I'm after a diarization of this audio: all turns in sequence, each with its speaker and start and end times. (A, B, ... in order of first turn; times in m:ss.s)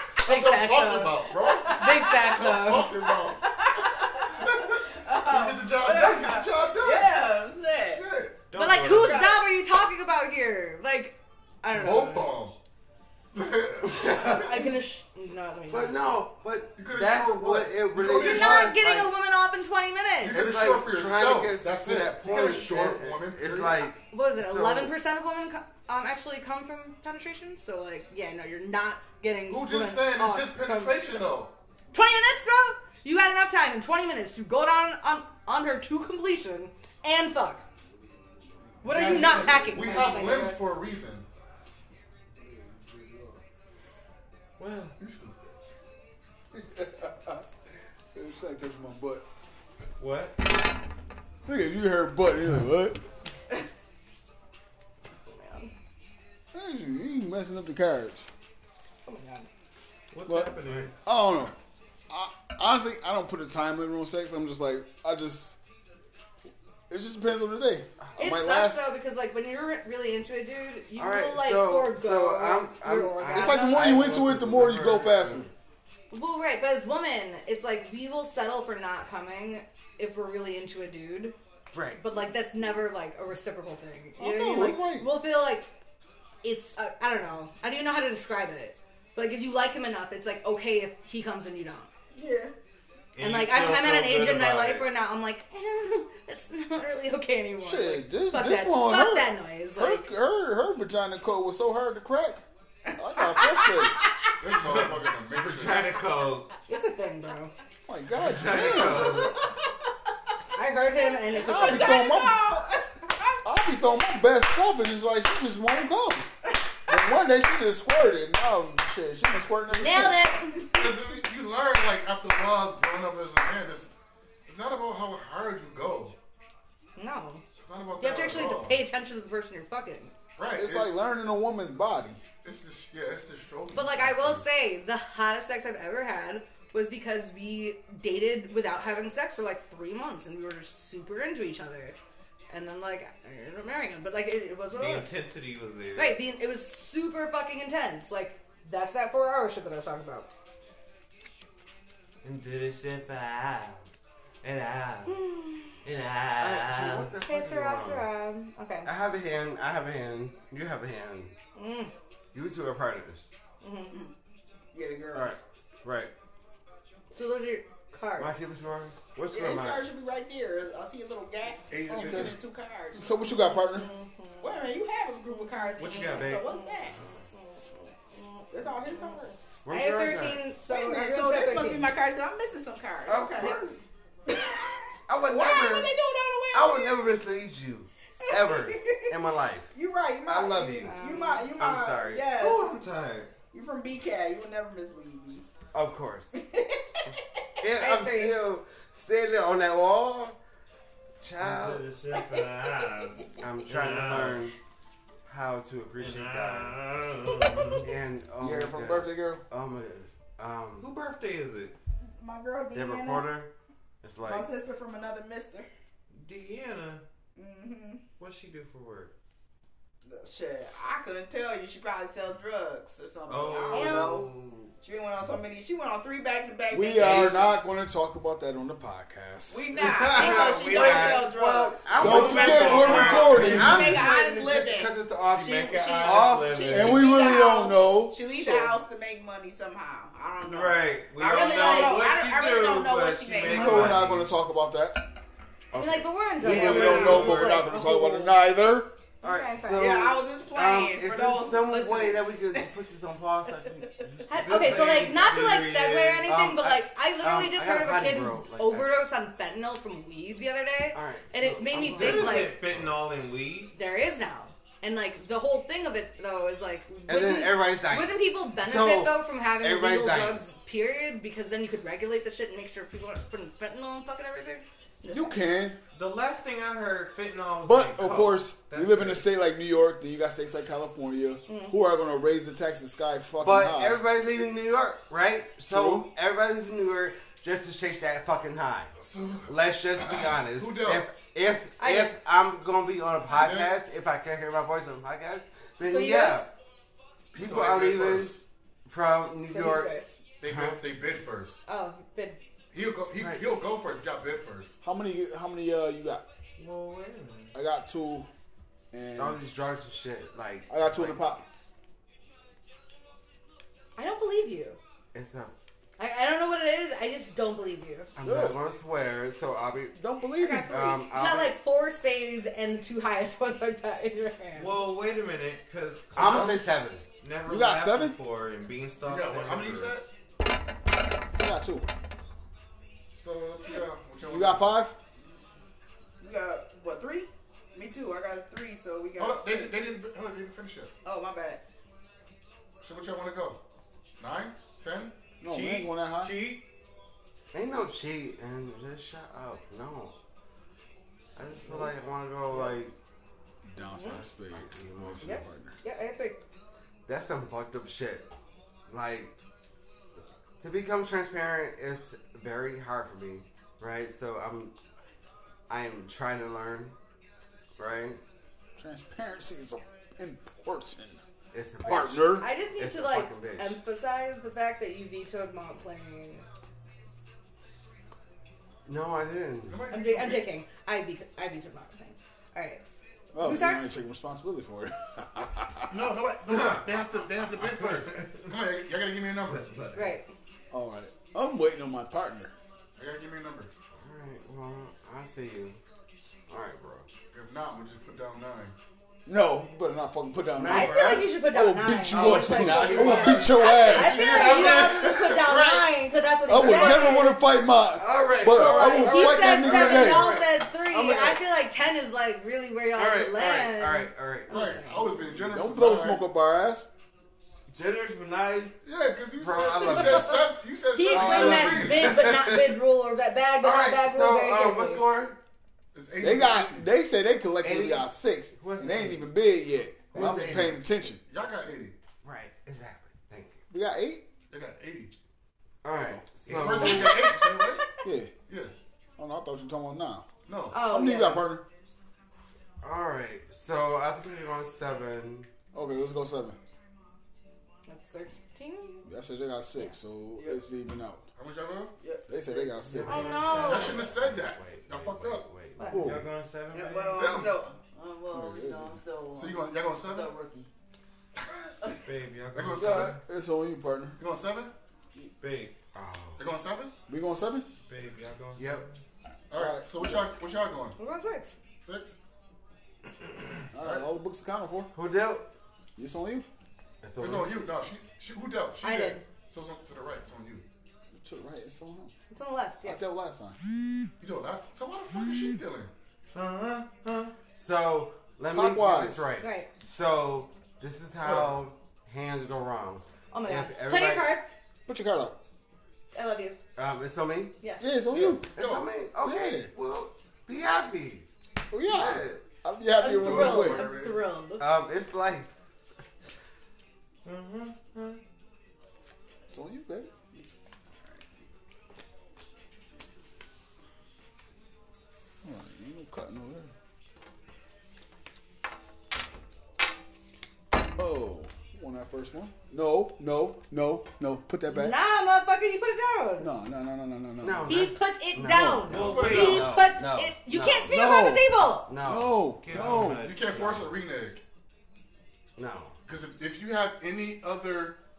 0:00.2-0:03.0 A
0:00.2-0:07.3 B
0:02.0-0:02.3 C
0:03.8-0:04.2 C
0:04.8-0:08.0 C
0:07.8-0:08.4 B
0:08.5-0:09.3 D
0:08.5-0:12.3 A
0:09.0-0:09.4 C
0:11.7-0:12.6 B
0:13.3-0:14.5 B
0:13.8-0:14.6 E
0:14.3-0:16.0 A
0:15.7-0:19.1 E
0:16.8-0:18.8 B
0:18.1-0:20.4 A
0:20.2-0:23.9 B
0:20.3-0:24.9 E
0:24.1-0:31.2 A
0:29.5-0:31.5 B
0:31.9-0:37.6 A
0:38.0-0:39.8 F
0:38.8-0:40.6 A
0:38.9-0:41.2 B
0:42.4-0:43.4 F
0:44.6-0:45.0 D
0:45.0-0:45.5 B
0:46.5-0:47.4 F
0:48.1-0:49.2 F
0:50.0-0:50.4 D
0:51.4-0:53.0 F
0:55.3-0:55.7 A
0:56.5-0:58.3 F
0:59.0-0:59.5 A
1:00.1-1:00.9 D
1:00.2-1:01.5 F
1:02.1-1:05.6 F
1:06.9-1:08.8 F
1:08.2-1:13.9 A
1:11.0-1:15.5 E
1:13.3-1:15.4 F
1:16.1-1:21.3 A
1:21.7-1:22.0 E
1:22.0-1:25.7 A
1:24.2-1:25.1 F
1:26.4-1:31.9 A
1:32.1-1:32.5 C
1:33.1-1:34.9 D
1:33.2-1:40.1 A
1:37.6-1:42.4 F
1:43.0-1:44.0 F
1:43.3-1:44.3 C
1:44.4-1:46.0 B
1:44.7-1:46.5 D
1:46.7-1:47.5 A
1:47.9-1:49.3 F
1:48.2-1:49.4 D
1:50.5-1:52.0 A
1:51.1-1:53.4 C
1:51.4-1:52.4 F
1:53.4-1:56.3 F
1:56.9-2:00.3 F
1:59.7-2:00.6 A
2:00.7-2:03.9 B
2:04.5-2:06.2 B
2:07.0-2:07.4 A
2:07.6-2:08.8 B
2:08.0-2:10.1 A
2:10.4-2:11.0 B
2:10.5-2:12.2 F
2:12.4-2:14.4 B
2:13.7-2:22.0 A
2:22.5-2:25.1 A
2:24.7-2:26.2 D
2:25.9-2:30.3 A
2:32.2-2:33.8 D
2:34.4-2:35.2 D
2:35.0-2:35.8 A
2:35.8-2:37.1 D
2:36.4-2:38.1 E
2:37.2-2:38.9 A
2:38.8-2:41.3 E
2:41.5-2:41.9 A
2:42.3-2:43.3 E
2:43.6-2:44.0 A
2:44.7-2:45.4 C
2:45.1-2:46.1 E
2:47.1-2:48.3 A
2:48.2-2:49.8 E
2:49.3-2:53.2 C
2:51.7-2:52.3 B
2:52.0-2:52.3 F
2:52.9-2:53.9 F
2:53.3-2:54.7 A
2:54.4-2:57.0 C
2:55.3-2:59.1 A
2:55.8-2:56.5 D
2:58.5-2:59.4 C
2:59.6-3:00.4 E
2:59.7-3:01.9 A
3:00.6-3:03.6 C
3:03.0-3:03.8 E
3:04.3-3:07.1 C
3:05.1-3:05.9 E
3:06.5-3:09.7 E
3:08.2-3:09.1 C
3:09.7-3:12.8 C
3:10.3-3:11.0 E
3:10.8-3:11.5 A
3:11.6-3:12.3 E
3:12.3-3:13.3 D
3:13.5-3:15.4 C
3:15.7-3:16.4 E
3:16.3-3:16.8 C
3:17.6-3:20.4 E
3:17.8-3:18.4 A
3:21.2-3:21.9 E
3:21.4-3:24.5 D
3:23.4-3:24.5 E
3:25.2-3:26.8 E
3:26.0-3:27.9 D
3:27.8-3:30.9 E
3:28.4-3:29.4 F
3:30.8-3:31.7 D
3:32.1-3:33.4 C
3:32.7-3:33.5 E
3:34.0-3:34.5 E
3:34.2-3:35.7 C
3:36.1-3:37.0 D
3:37.4-3:38.0 C
3:38.2-3:39.1 D
3:40.0-3:44.3 C
3:43.3-3:44.4 D
3:43.7-3:44.7 E
3:43.8-3:44.0 A
3:44.8-3:47.6 C
3:46.7-3:49.6 F
3:47.0-3:47.4 E
3:49.5-3:54.9 C
3:49.7-3:54.1 D
3:50.1-3:57.0 E
3:52.0-3:54.0 F
3:55.3-3:57.2 D
3:55.7-4:04.0 C
3:56.7-3:58.7 F
4:00.4-4:04.3 D
4:01.5-4:02.0 A
4:03.4-4:05.0 F
4:05.7-4:07.7 D
4:05.7-4:08.3 A
4:06.4-4:08.9 F
4:06.4-4:07.6 E
4:09.2-4:15.1 E
4:09.2-4:09.8 A
4:09.6-4:12.7 C
4:13.6-4:14.1 C
4:14.3-4:22.6 A
4:14.3-4:16.3 D
4:16.3-4:18.9 E
4:20.9-4:23.0 E
4:21.7-4:23.7 D
4:23.7-4:35.4 A
4:27.1-4:30.4 E
4:35.1-4:35.8 F
4:35.9-4:39.3 D
4:37.6-4:44.0 F
4:41.5-4:41.7 A
4:43.4-4:48.9 E
4:45.7-4:46.0 F
4:49.0-4:51.0 B
4:49.5-4:56.5 E
4:51.8-4:52.1 A
4:53.3-4:53.7 B
4:55.8-4:56.5 A
4:57.3-4:58.4 B
4:57.3-5:00.8 E
4:59.5-5:00.2 A
5:00.4-5:01.6 B
5:01.6-5:02.4 A
5:02.7-5:04.7 B
5:03.2-5:03.5 E
5:04.8-5:06.2 F
5:06.6-5:07.5 D
5:07.5-5:08.3 F
5:08.9-5:09.4 F
5:09.2-5:11.2 E
5:10.7-5:11.4 F
5:14.0-5:14.8 A
5:15.1-5:15.5 E
5:16.0-5:18.1 A
5:18.2-5:19.9 E
5:18.2-5:18.6 F
5:19.9-5:21.0 F
5:20.4-5:24.8 A
5:20.7-5:21.6 E
5:24.5-5:30.0 D
5:26.1-5:27.0 E
5:27.4-5:28.2 F
5:29.0-5:30.1 B
5:31.3-5:31.9 F
5:33.2-5:34.8 B
5:34.3-5:34.9 F
5:36.2-5:39.7 C
5:39.2-5:40.9 B
5:41.0-5:41.6 C
5:42.8-5:43.6 B
5:44.2-5:45.1 B
5:45.4-5:46.4 F
5:45.4-5:46.6 D
5:47.5-5:50.1 E
5:51.4-5:52.9 E
5:53.6-5:55.8 F
5:53.9-5:54.2 A
5:54.1-5:55.5 E
5:55.2-5:56.4 A
5:57.0-5:58.3 E
5:58.9-5:59.4 E
6:00.6-6:04.7 E
6:05.7-6:06.9 E
6:07.8-6:08.2 E
6:08.8-6:11.2 F
6:11.5-6:13.8 E
6:11.8-6:12.5 F
6:12.4-6:16.4 A
6:18.9-6:19.8 E
6:19.7-6:20.5 B
6:19.9-6:22.8 A
6:23.3-6:26.1 F
6:23.4-6:23.9 A
6:25.9-6:29.8 B
6:26.5-6:27.0 D
6:27.5-6:28.6 D
6:29.4-6:30.2 D
6:29.9-6:30.3 A
6:30.7-6:32.5 F
6:33.0-6:33.7 B
6:34.0-6:35.8 E
6:36.5-6:37.1 E
6:37.3-6:38.7 B
6:39.3-6:44.3 F
6:40.6-6:41.3 E
6:40.7-6:47.4 A
6:42.1-6:45.9 E
6:42.9-6:45.5 B
6:46.5-6:50.4 F
6:46.6-6:47.0 E
6:47.9-6:51.4 E
6:48.5-6:55.2 A
6:53.0-6:54.8 E
6:54.5-6:56.2 B
6:55.5-6:56.9 F
6:57.7-6:58.8 E
6:58.8-7:02.3 B
6:59.4-7:00.4 E
6:59.7-7:05.0 A
7:01.1-7:02.8 E
7:01.1-7:01.8 F
7:03.6-7:05.4 E
7:05.9-7:06.9 B
7:06.2-7:11.2 F
7:07.6-7:09.3 E
7:10.1-7:10.8 E
7:10.2-7:10.7 B
7:11.3-7:12.0 B
7:12.2-7:13.6 E
7:13.7-7:14.2 F
7:14.5-7:15.1 B
7:15.8-7:17.4 E
7:16.4-7:17.8 B
7:17.0-7:17.9 A
7:18.0-7:18.3 F
7:19.2-7:20.3 F
7:20.4-7:20.8 B
7:20.7-7:21.5 A
7:20.8-7:21.6 F
7:22.8-7:25.5 E
7:25.7-7:26.6 F
7:27.9-7:29.0 A
7:29.0-7:31.2 F
7:30.3-7:30.6 C
7:31.4-7:31.9 B
7:32.0-7:33.4 C
7:32.3-7:33.4 F
7:32.9-7:33.8 D
7:33.0-7:34.1 A
7:33.5-7:35.9 E
7:33.6-7:35.4 B
7:35.8-7:36.3 A
7:35.9-7:37.5 D
7:35.9-7:36.3 F
7:36.7-7:40.7 C
7:37.1-7:37.6 B
7:38.3-7:39.0 F
7:39.3-7:40.3 B
7:41.8-7:42.1 C
7:42.0-7:43.2 D
7:42.5-7:43.2 B
7:42.7-7:44.2 F
7:44.2-7:44.7 B
7:45.4-7:45.7 D
7:45.9-7:46.4 E
7:46.4-7:46.9 B
7:47.1-7:47.7 F
7:47.9-7:49.0 D
7:48.6-7:48.8 E
7:49.5-7:51.0 B
7:49.5-7:50.3 F
7:51.0-7:51.6 A
7:51.8-7:52.2 B
7:53.7-7:54.9 F
7:53.8-7:54.0 B
7:54.9-7:55.5 E
7:56.0-7:56.5 F
7:57.0-7:57.6 E
7:57.2-8:00.6 B
7:58.8-7:59.2 A
8:01.1-8:02.1 F
8:02.3-8:03.0 A
8:02.8-8:03.6 F
8:04.2-8:05.9 B
8:06.3-8:07.3 D
8:07.6-8:14.4 E
8:08.5-8:09.3 F
8:09.4-8:09.7 A
8:13.3-8:14.5 A
8:14.9-8:15.4 F
8:16.1-8:16.6 A
8:16.8-8:17.6 E
8:17.6-8:17.9 A
8:17.8-8:18.4 F
8:18.1-8:18.9 B
8:18.1-8:21.3 E
8:19.2-8:19.7 F
8:21.7-8:23.9 F
8:21.9-8:22.4 E
8:21.9-8:22.3 B
8:23.0-8:24.7 A
8:23.0-8:24.2 B
8:24.6-8:25.5 E
8:27.2-8:28.2 D
8:29.5-8:30.4 F
8:35.4-8:36.7 F
8:41.0-8:45.0 F
8:44.7-8:46.5 A
8:46.4-8:49.0 F
8:47.4-8:50.9 E
8:47.7-8:51.9 A
8:48.9-8:49.9 D
8:50.9-8:53.3 F
8:51.9-8:52.4 E
8:52.6-8:54.0 D
8:52.7-8:54.4 B
8:55.6-8:56.0 E
8:56.0-8:58.0 B